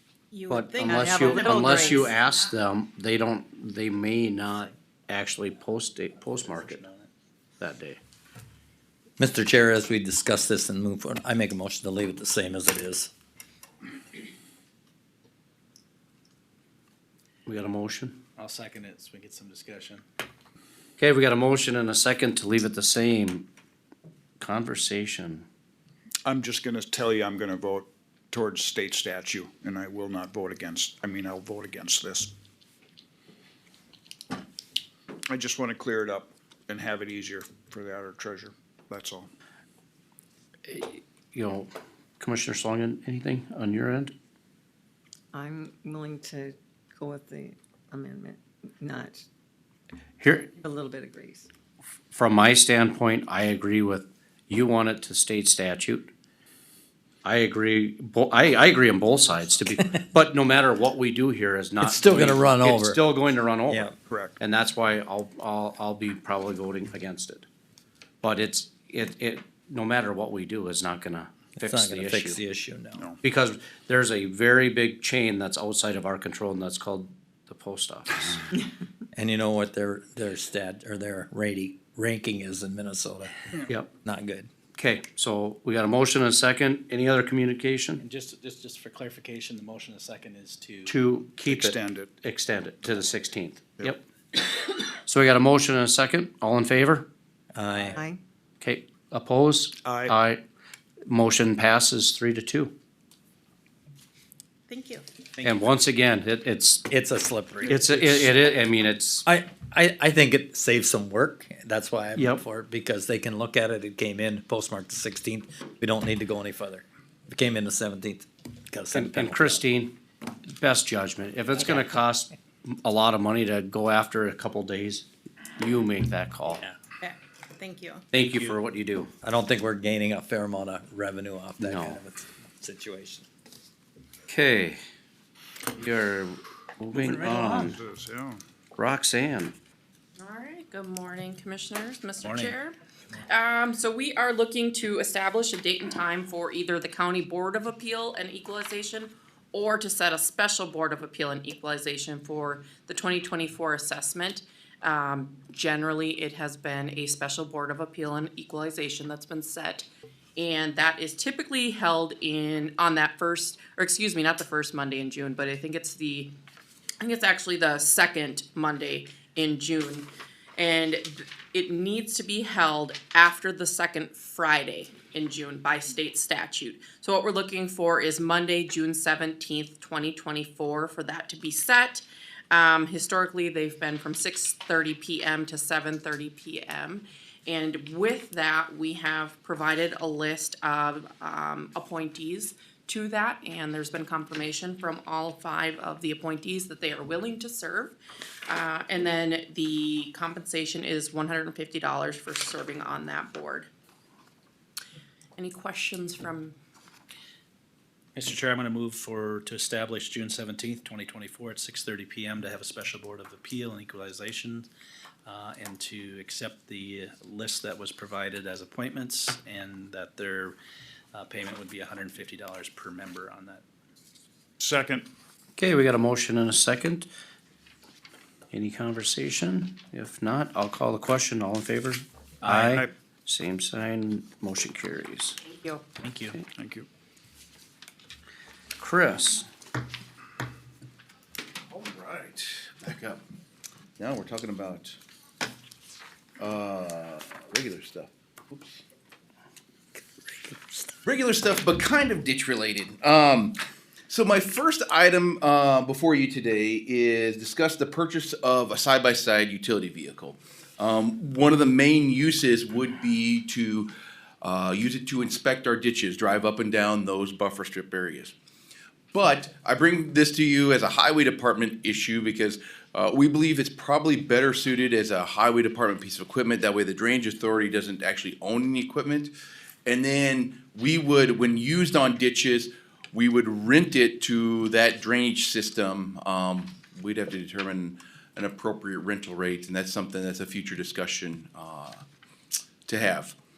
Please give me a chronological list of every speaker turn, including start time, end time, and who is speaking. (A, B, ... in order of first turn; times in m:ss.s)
0:00.3-0:02.4 A
0:00.5-0:06.8 B
0:00.9-0:02.0 C
0:06.4-0:07.1 D
0:07.6-0:08.0 B
0:09.2-0:13.1 E
0:17.4-0:18.2 B
0:18.4-0:20.0 D
0:21.0-0:23.4 B
0:24.4-0:25.4 B
0:26.2-0:32.3 F
0:35.3-0:39.3 F
0:40.7-0:44.1 B
0:45.3-0:49.2 C
0:50.2-0:50.5 B
0:50.6-0:51.5 C
0:52.1-0:56.1 B
0:57.2-1:07.4 B
1:01.8-1:03.0 E
1:03.7-1:03.9 E
1:04.1-1:04.3 F
1:08.2-1:12.4 B
1:11.6-1:13.0 E
1:13.2-1:18.5 B
1:19.1-1:23.5 E
1:24.0-1:24.5 E
1:24.7-1:28.0 B
1:28.0-1:31.0 D
1:30.8-1:34.0 B
1:31.4-1:32.1 F
1:35.0-1:37.1 B
1:37.5-1:38.0 E
1:37.9-1:38.2 C
1:38.6-1:40.4 B
1:39.8-1:40.1 F
1:41.0-1:42.7 B
1:44.7-1:45.0 A
1:45.4-1:46.8 B
1:46.9-1:47.9 E
1:47.7-1:49.2 B
1:49.2-1:59.6 E
1:52.2-1:52.4 B
1:58.9-1:59.9 B
2:00.5-2:06.6 B
2:07.0-2:08.0 A
2:08.1-2:09.1 B
2:09.2-2:13.2 E
2:11.6-2:12.0 B
2:14.3-2:14.8 B
2:15.8-2:17.8 B
2:17.0-2:18.4 F
2:18.8-2:19.5 B
2:20.2-2:46.3 G
2:22.2-2:22.5 D
2:47.0-3:18.0 G
3:18.5-3:23.7 G
3:25.4-3:26.5 G
3:28.2-3:34.7 D
3:35.2-3:40.6 D
3:41.1-3:43.6 D
3:44.6-3:45.1 F
3:45.6-3:47.1 B
3:48.5-3:55.4 B
3:52.4-3:52.8 D
3:55.5-3:55.8 A
3:56.0-3:56.4 D
3:56.5-3:56.9 F
3:58.8-3:59.4 B
4:01.7-4:03.2 H
4:04.0-4:05.0 H
4:06.4-4:08.8 H
4:10.3-4:10.9 E
4:11.0-4:13.6 H
4:14.1-4:23.9 H
4:24.4-4:28.3 H
4:29.1-4:39.3 H
4:39.8-4:52.0 H
4:52.8-4:53.3 H